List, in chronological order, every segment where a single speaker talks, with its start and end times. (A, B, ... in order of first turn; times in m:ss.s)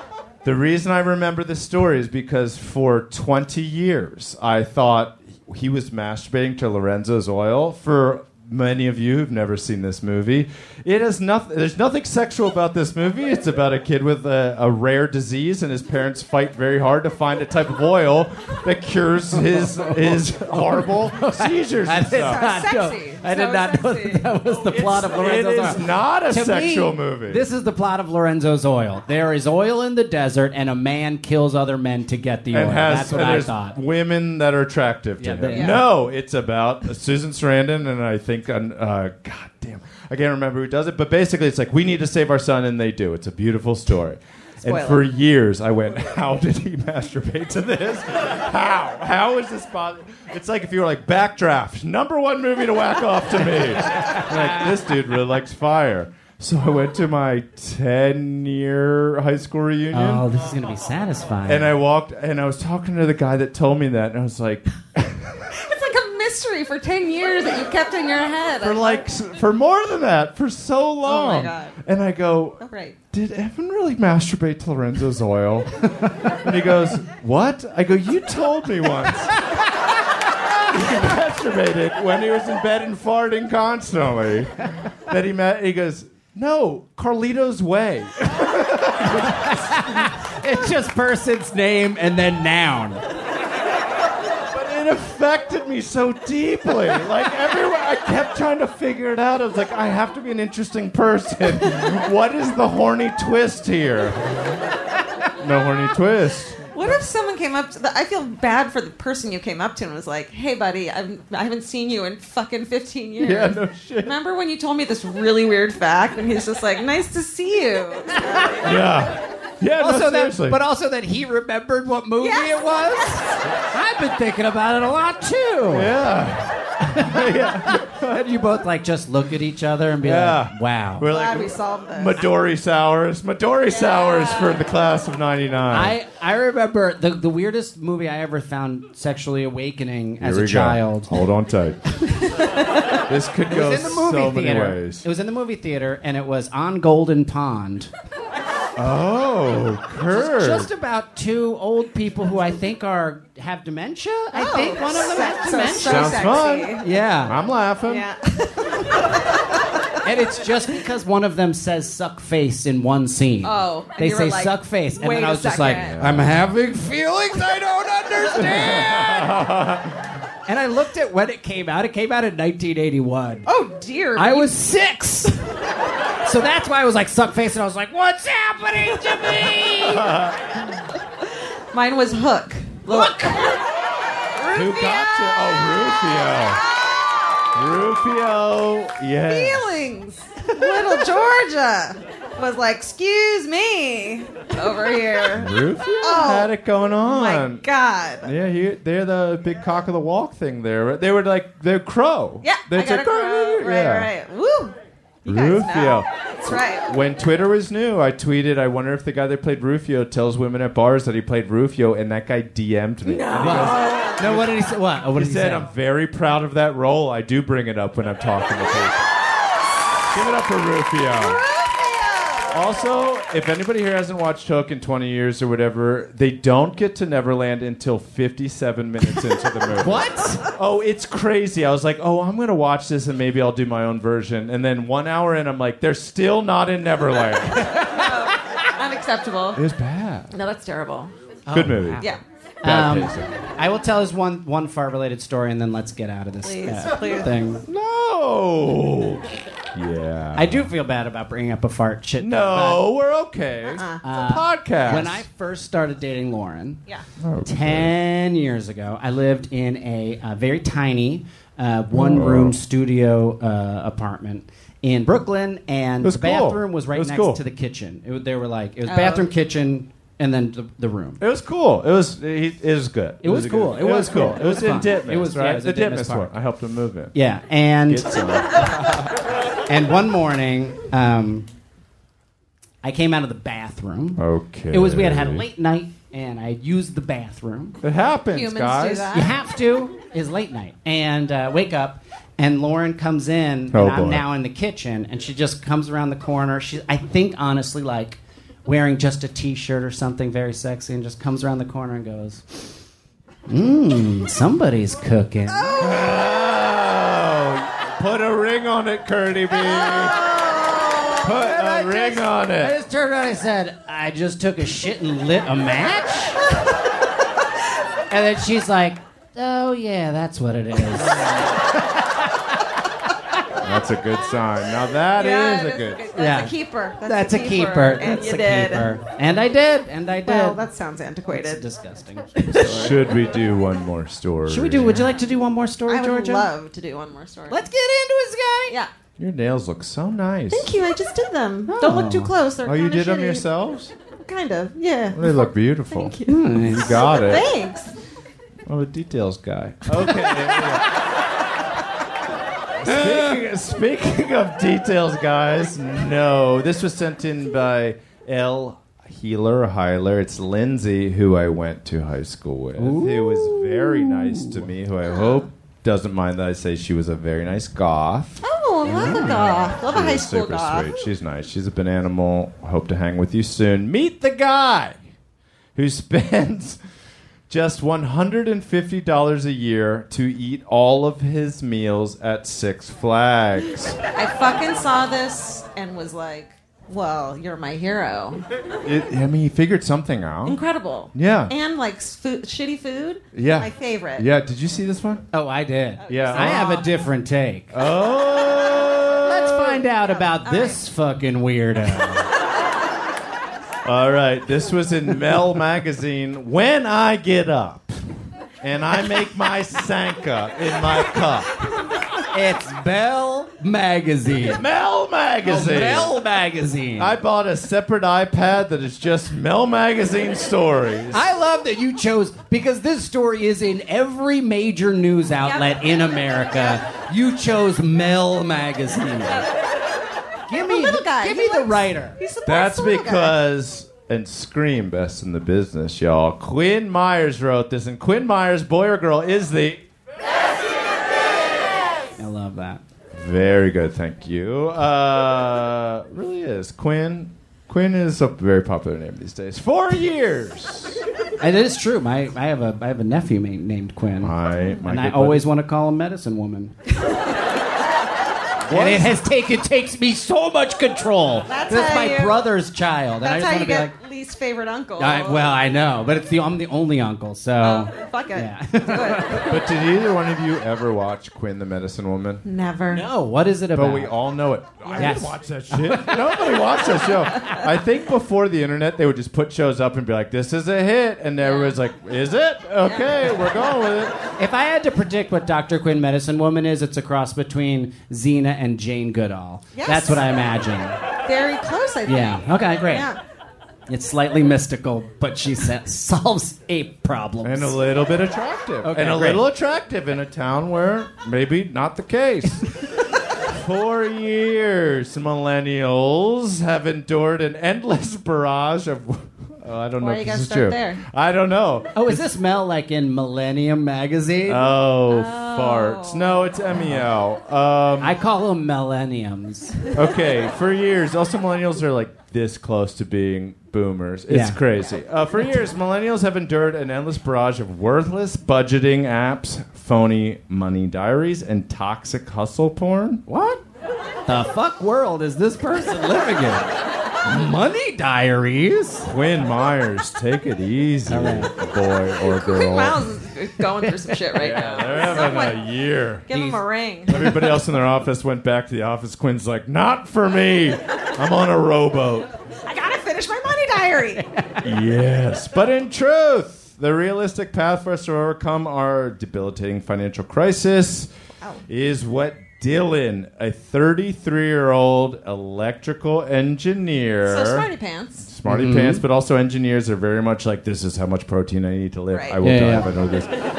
0:00.4-0:22.5 A
0:19.4-0:33.8 B
0:22.2-0:24.3 C
0:24.7-0:27.4 A
0:32.5-1:00.2 A
0:35.2-0:35.8 B
0:35.5-0:35.8 C
0:44.6-0:45.0 C
0:54.0-0:54.7 B
0:59.9-1:01.7 B
1:01.5-1:05.4 A
1:05.5-1:09.0 C
1:08.6-1:12.6 A
1:11.0-1:11.8 C
1:12.6-1:13.0 C
1:13.1-1:19.4 A
1:20.6-1:30.1 A
1:29.1-1:33.0 B
1:34.5-1:44.4 A
1:45.4-1:46.7 A
1:46.7-1:58.8 C
1:53.2-1:54.1 A
1:58.6-2:00.6 A
1:59.8-2:05.9 B
2:02.2-2:03.2 C
2:05.7-2:08.2 A
2:06.8-2:11.1 B
2:10.0-2:16.0 A
2:11.1-2:12.2 C
2:13.7-2:14.6 C
2:15.7-2:21.2 B
2:20.2-2:21.8 A
2:23.1-2:25.0 A
2:23.5-2:27.9 B
2:28.8-2:30.7 A
2:30.1-2:37.4 B
2:34.3-2:36.9 C
2:35.8-2:36.8 A
2:37.3-2:38.1 A
2:37.9-2:39.6 C
2:40.0-2:49.4 B
2:43.4-2:46.0 C
2:45.8-2:46.3 A
2:48.4-2:50.0 A
2:48.4-2:48.8 C
2:50.5-2:53.5 B
2:53.4-2:54.6 C
2:54.2-2:55.4 B
2:56.2-3:00.1 B
2:59.8-3:00.6 A
3:01.7-3:03.6 C
3:02.9-3:03.4 B
3:04.4-3:05.6 C
3:04.5-3:06.6 A
3:06.7-3:07.5 C
3:07.6-3:09.8 A
3:09.3-3:16.5 C
3:15.3-3:17.6 A
3:17.0-3:18.3 C
3:18.2-3:24.1 A
3:22.4-3:26.8 C
3:25.3-3:34.6 A
3:33.1-3:34.2 C
3:33.4-3:35.7 B
3:35.2-3:39.1 A
3:40.1-3:41.4 A
3:41.2-3:42.6 C
3:42.5-3:57.8 A
3:49.8-3:50.4 B
3:57.6-3:58.1 B
3:57.8-3:59.6 C
3:59.6-4:00.3 A
4:00.3-4:01.1 C
4:01.5-4:07.6 B
4:01.5-4:02.0 A
4:02.6-4:03.3 A
4:06.4-4:07.3 C
4:07.7-4:10.7 A
4:10.4-4:12.8 B
4:12.2-4:15.2 A
4:13.7-4:14.0 C
4:14.0-4:16.8 B
4:17.2-4:17.9 A
4:17.4-4:31.2 B
4:21.9-4:22.6 A
4:26.0-4:27.4 A
4:28.9-4:29.3 C
4:31.2-4:37.1 A
4:33.2-4:36.3 B
4:37.1-4:38.2 B
4:37.9-4:39.0 A
4:39.7-4:41.5 B
4:42.8-4:47.8 B
4:44.2-4:45.4 A
4:47.8-4:49.1 A
4:48.3-4:49.4 C
4:49.1-5:02.7 B
4:53.7-4:54.2 A
5:03.5-5:05.9 B
5:05.8-5:10.2 A
5:09.6-5:11.3 C
5:11.1-5:16.4 B
5:11.2-5:12.7 A
5:18.1-5:22.4 B
5:23.6-5:26.0 A
5:25.2-5:28.9 C
5:26.2-5:26.5 B
5:27.0-5:30.6 B
5:30.3-5:31.6 C
5:31.3-5:33.0 B
5:32.4-5:33.0 C
5:32.5-5:35.1 A
5:34.5-5:36.5 B
5:35.9-5:37.6 C
5:37.5-5:38.8 B
5:39.2-5:40.7 A
5:40.5-5:43.4 C
5:41.7-5:42.3 B
5:42.6-5:43.9 A
5:44.2-5:48.0 C
5:45.1-5:47.5 A
5:46.3-5:47.0 B
5:48.7-5:50.9 A
5:52.8-6:08.4 A
5:52.9-5:53.2 B
6:02.8-6:04.6 B
6:05.0-6:05.4 C
6:08.4-6:11.0 C
6:08.9-6:09.3 B
6:09.0-6:15.0 A
6:15.8-6:16.8 A
6:17.5-6:24.0 A
6:24.2-6:28.4 C
6:28.8-6:30.6 A
6:30.4-6:34.3 C
6:31.1-6:31.5 A
6:33.3-6:35.2 A
6:35.3-6:37.7 B
6:36.0-6:36.9 C
6:36.1-6:36.8 A
6:37.7-6:39.8 A
6:39.2-6:42.3 B
6:40.1-6:40.8 C
6:43.8-6:48.0 A
6:48.6-6:51.5 A
6:52.3-6:54.6 B
6:54.5-6:56.2 A
6:55.4-6:57.1 B
6:57.0-7:01.4 A
7:01.1-7:09.5 B
7:05.4-7:05.7 C
7:10.5-7:12.2 B
7:10.5-7:13.4 C
7:12.5-7:19.8 A
7:22.2-7:22.8 B
7:23.1-7:31.0 A
7:31.4-7:36.7 B
7:34.2-7:35.5 A
7:38.6-7:39.2 A
7:38.7-7:43.9 B
7:41.5-7:42.5 C
7:43.2-7:45.6 C
7:45.0-7:49.6 B
7:47.6-7:49.6 C
7:49.4-7:52.4 A
7:52.4-7:53.1 C
7:52.9-7:54.2 B
7:53.7-8:04.2 A
7:54.8-7:55.3 C
7:55.0-7:56.6 B
7:57.4-7:57.6 C
8:01.4-8:01.8 C
8:02.8-8:03.3 C
8:04.4-8:11.0 B
8:09.8-8:10.2 C
8:11.3-8:13.2 C
8:12.1-8:13.1 B
8:13.9-8:17.8 B
8:17.4-8:22.8 A
8:18.8-8:19.4 B
8:23.4-8:32.2 A
8:30.0-8:31.0 C
8:32.0-8:34.7 B
8:34.5-8:38.2 A
8:35.1-8:36.6 C
8:38.0-8:39.8 B
8:39.9-8:53.2 A
8:44.3-8:44.6 B
8:53.3-8:53.6 B
8:54.3-8:56.7 B
8:57.2-8:59.1 B
8:59.1-9:03.1 A
9:01.1-9:01.5 B
9:02.3-9:05.6 C
9:04.4-9:06.3 A
9:06.3-9:07.3 C
9:06.3-9:06.6 B
9:07.1-9:12.3 A
9:07.1-9:07.4 B
9:12.6-9:14.2 C
9:14.2-9:14.6 B
9:14.6-9:21.1 A
9:21.7-9:27.7 A
9:27.2-9:28.2 C
9:28.2-9:33.3 A
9:28.5-9:29.0 B
9:32.1-9:32.4 C
9:32.4-9:32.9 B